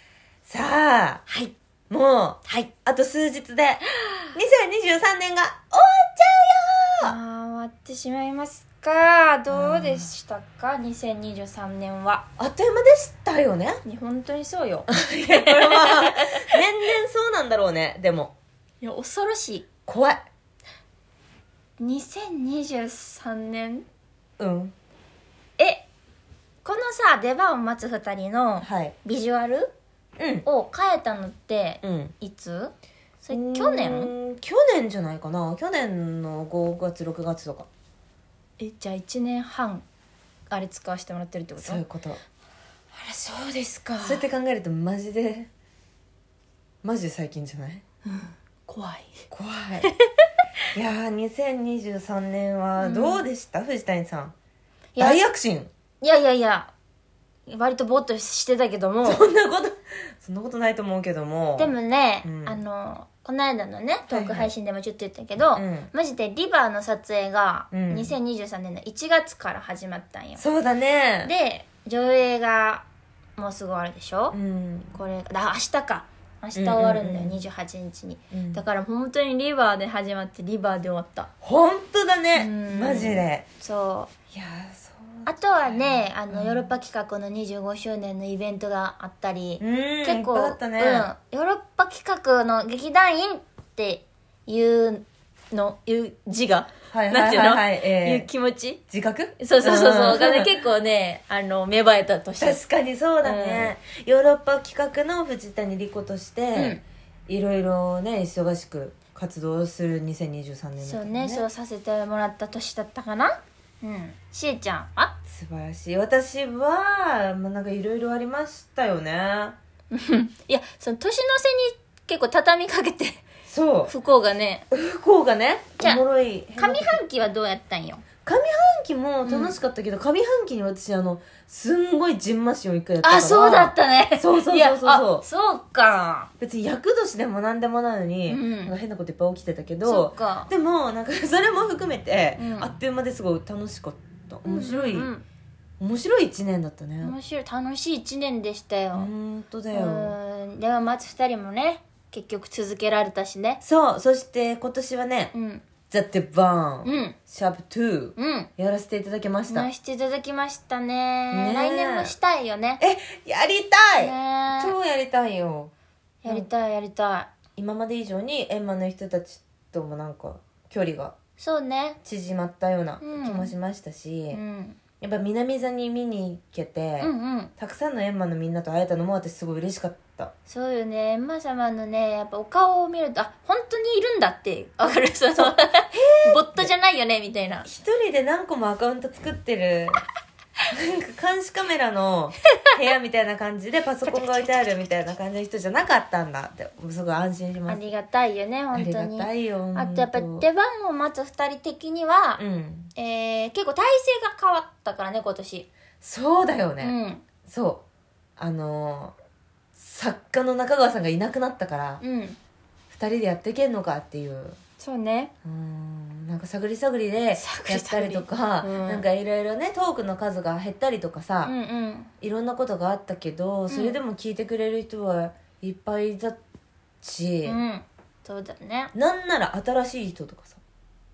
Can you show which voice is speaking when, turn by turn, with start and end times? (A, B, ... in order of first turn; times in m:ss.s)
0:00.5-0:01.3 A
0:01.9-0:07.2 A
0:07.0-0:12.2 B
0:09.5-0:10.1 A
0:12.4-0:13.8 A
0:13.8-0:16.4 B
0:14.9-0:18.3 A
0:18.8-0:19.7 B
0:19.9-0:20.2 A
0:21.8-0:23.8 B
0:24.4-0:24.7 A
0:25.6-0:25.9 B
0:26.6-0:29.7 B
0:28.6-0:28.9 A
0:30.2-0:30.4 A
0:30.4-0:34.1 B
0:31.8-0:32.1 A
0:33.3-0:37.7 A
0:38.6-0:39.8 B
0:40.5-0:41.8 B
0:41.6-0:42.2 A
0:43.0-0:44.2 B
0:44.0-0:45.5 A
0:46.8-0:47.8 A
0:48.0-0:49.2 B
0:49.3-0:49.9 A
0:50.7-0:54.3 A
0:52.8-0:53.2 B
0:55.0-0:55.2 B
0:55.0-0:55.7 A
0:56.0-0:56.7 B
0:57.5-0:59.2 B
0:59.0-1:02.6 A
1:01.6-1:10.4 B
1:04.1-1:04.5 A
1:05.5-1:05.9 A
1:07.7-1:08.1 A
1:10.4-1:11.3 A
1:11.2-1:12.8 B
1:13.4-1:14.4 B
1:14.3-1:15.0 A
1:14.9-1:21.3 B
1:16.6-1:17.4 A
1:18.3-1:18.6 A
1:21.4-1:23.4 A
1:22.3-1:24.1 B
1:24.3-1:26.7 A
1:25.2-1:38.8 B
1:29.6-1:31.1 A
1:36.9-1:38.3 A
1:38.9-1:40.5 A
1:39.4-1:42.6 B
1:42.4-1:51.4 A
1:43.2-1:43.7 B
1:46.5-1:46.8 B
1:50.8-1:55.1 B
1:55.3-1:59.6 A
1:59.9-2:03.2 B
2:03.5-2:03.9 A
2:03.9-2:04.6 B
2:04.7-2:07.0 A
2:06.6-2:08.0 B
2:08.2-2:15.2 A
2:09.2-2:09.6 B
2:13.0-2:16.3 B
2:16.4-2:25.1 A
2:18.3-2:18.7 B
2:19.8-2:20.5 B
2:22.4-2:22.7 B
2:24.4-2:25.2 B
2:25.8-2:27.1 A
2:27.0-2:29.1 B
2:28.9-2:30.2 A
2:29.7-2:33.6 B
2:33.6-2:35.3 A
2:35.3-2:35.6 B
2:35.9-2:39.7 A
2:36.8-2:37.2 B
2:38.2-2:38.5 B
2:39.5-2:42.8 B
2:41.3-2:42.1 A
2:42.8-2:45.7 A
2:44.0-2:44.7 B
2:46.2-2:47.3 B
2:47.6-2:51.1 A
2:51.4-2:52.0 B
2:52.0-2:54.4 A
2:53.0-2:53.5 B
2:54.3-2:54.8 B
2:55.0-3:00.3 A
2:57.0-2:57.5 B
3:00.5-3:07.7 B
3:05.4-3:06.7 A
3:07.6-3:10.0 A
3:10.7-3:17.9 A
3:14.0-3:14.7 B
3:17.7-3:22.4 B
3:18.7-3:20.5 A
3:22.4-3:22.9 A
3:23.0-3:25.7 B
3:26.0-3:27.8 A
3:26.8-3:27.2 B
3:28.4-3:29.2 A
3:29.8-3:32.0 A
3:32.0-3:32.4 B
3:32.9-3:34.6 A
3:34.8-3:35.3 B
3:35.4-3:41.5 A
3:37.4-3:39.0 B
3:41.4-3:42.1 B
3:42.2-3:46.4 A
3:43.7-3:44.0 B
3:47.0-3:47.6 A
3:47.4-3:48.9 B
3:48.9-3:50.6 A